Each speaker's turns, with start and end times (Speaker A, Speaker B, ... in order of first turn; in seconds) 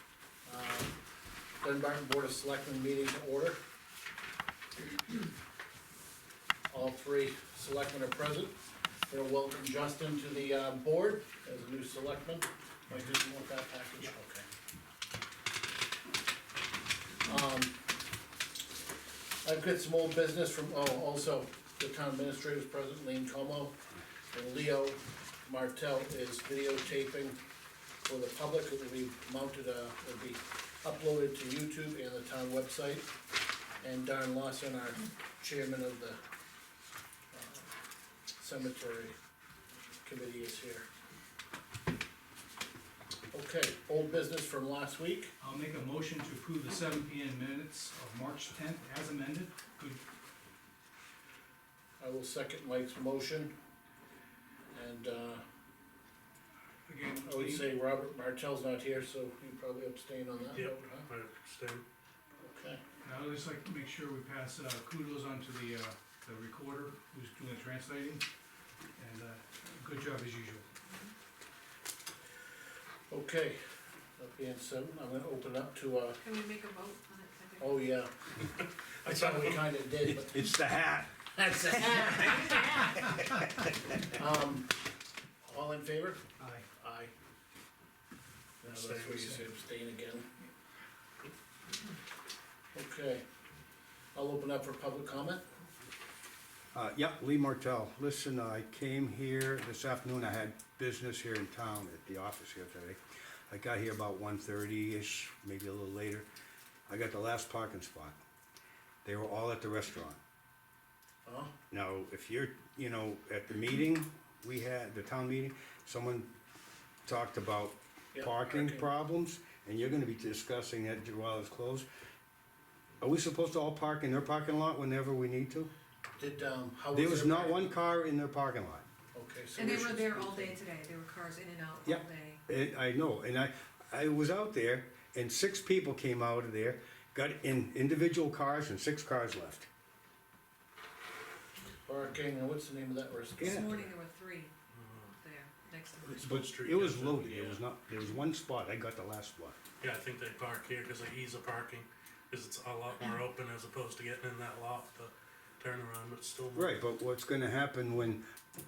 Speaker A: 0.5-0.9, 1.6-3.6, 6.7-8.5, 9.1-14.5, 17.2-17.8, 19.4-23.8, 24.3-27.4, 28.0-33.1, 33.8-36.2, 37.3-37.7, 38.4-39.1, 40.0-40.9, 43.3-45.3, 52.0-53.5, 54.7-55.4, 57.2-61.0, 62.4-62.8, 73.1-73.6, 74.2-76.2, 77.6-78.1, 79.0-80.4, 81.3-83.1, 84.0-84.8, 85.4-86.2, 86.8-87.1, 88.6-90.2, 92.7-93.2, 94.1-95.4, 111.2-111.5, 118.1-118.9, 126.2-127.6, 129.1-130.6, 141.8-143.9
Speaker B: 45.4-50.0, 56.9-57.7, 63.0-68.2, 69.0-70.7, 86.4-86.7
Speaker C: 60.5-61.8, 78.4-79.7, 88.6-89.4, 144.7-145.1, 146.1-147.6, 149.8-156.8
Speaker D: 76.2-77.8, 129.6-132.4, 143.4-144.5, 145.2-146.4
Speaker E: 80.0-84.1, 96.7-103.0, 103.5-106.3, 106.9-108.2, 109.0-110.2, 111.7-116.3, 117.0-121.9, 123.0-125.7, 126.9-128.8, 131.8-139.7, 143.4-143.7, 146.1-149.6, 156.5-158.2